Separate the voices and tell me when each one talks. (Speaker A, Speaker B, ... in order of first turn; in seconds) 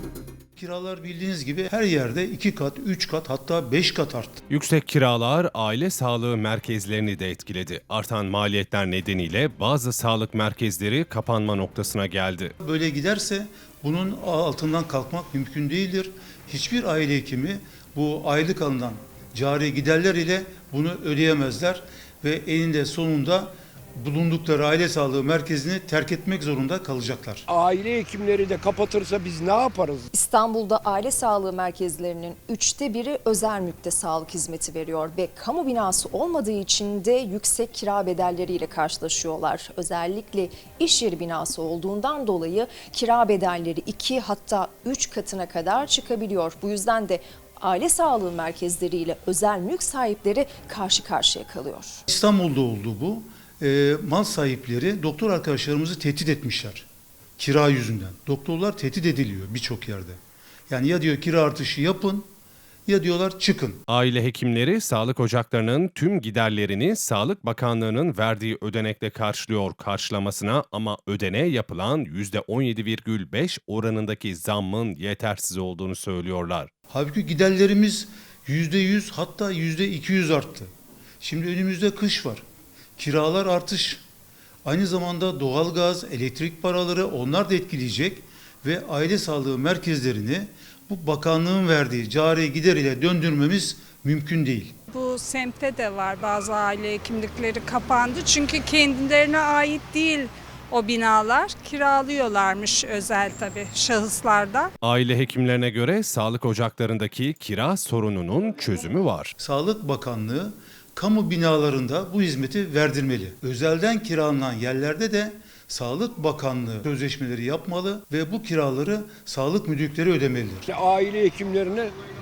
Speaker A: 0.6-4.4, 12.6-27.4, 52.1-56.9, 57.4-60.2, 60.7-62.3, 62.9-63.8, 76.9-80.7, 81.2-82.4, 83.0-84.0, 84.7-94.8, 109.4-120.7
Speaker B: 4.5-12.5, 63.9-76.7, 104.8-109.3
Speaker C: 27.5-30.1, 120.7-121.9
Speaker D: 30.1-52.0
Speaker E: 94.9-104.7